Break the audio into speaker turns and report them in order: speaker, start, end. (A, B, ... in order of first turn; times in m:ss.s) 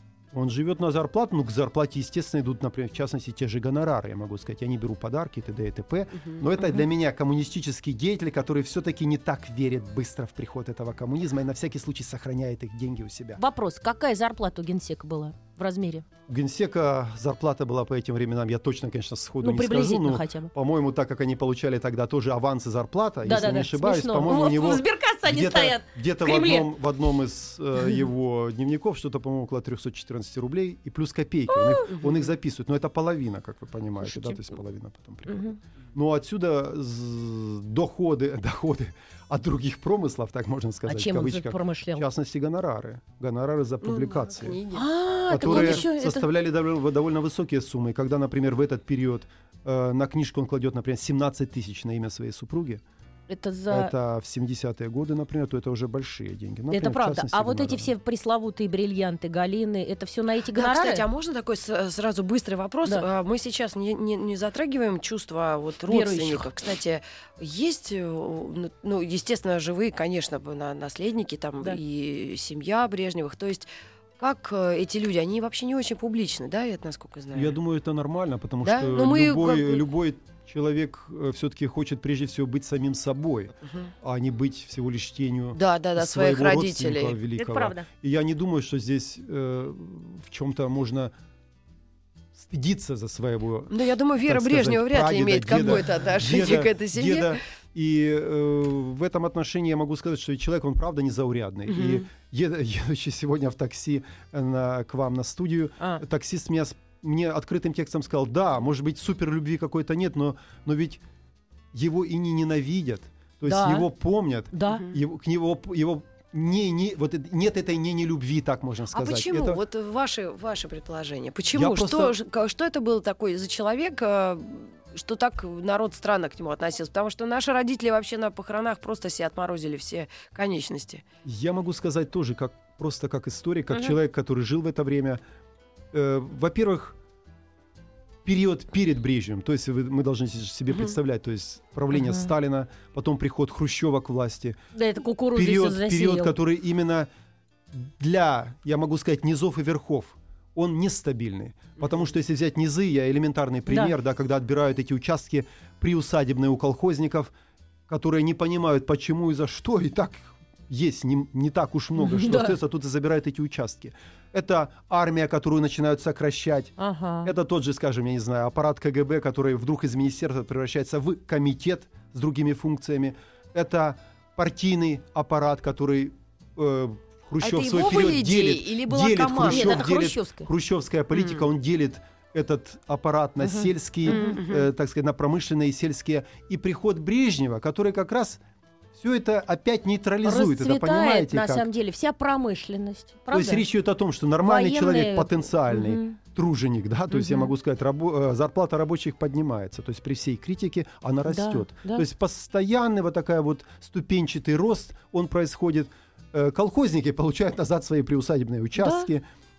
0:00.3-0:13.4 A
0:13.4-0:16.0 B
0:16.3-0:44.6 A
0:19.4-0:20.5 B
0:23.2-0:26.7 B
0:31.5-0:32.0 B
0:34.1-0:34.5 B
0:35.3-0:35.6 B
0:40.9-0:42.1 B
0:43.8-0:44.9 C
0:44.7-0:46.2 B
0:45.3-0:52.8 A
0:45.4-0:45.8 C
0:53.3-0:53.9 B
0:53.7-0:57.9 A
0:56.7-1:01.0 B
1:00.5-1:13.7 C
1:05.9-1:06.5 B
1:14.2-1:17.6 C
1:17.3-1:31.1 A
1:18.6-1:19.8 C
1:25.5-1:27.2 C
1:27.4-1:27.9 B
1:32.4-1:33.7 A
1:33.7-1:37.4 C
1:34.3-1:51.0 A
1:41.7-1:42.0 C
1:51.7-1:59.6 A
1:53.4-1:53.9 B
1:54.5-1:54.8 B
1:58.9-2:11.0 C
2:01.5-2:02.2 A
2:11.2-2:15.2 A
2:15.9-2:17.0 A
2:18.2-2:24.6 A
2:21.9-2:22.3 B
2:24.8-2:26.4 B
2:25.3-2:27.1 A
2:27.7-2:37.3 A
2:37.9-2:46.7 A
2:42.0-2:42.6 B
2:46.8-2:47.3 B
2:47.2-3:08.4 A
2:57.4-2:59.8 C
2:59.4-3:00.5 B
3:03.4-3:04.4 B
3:04.1-3:04.7 C
3:09.0-3:11.7 A
3:10.2-3:13.6 B
3:13.3-3:29.3 A
3:14.4-3:16.2 B
3:17.1-3:17.5 B
3:21.3-3:22.0 B
3:28.8-3:29.1 B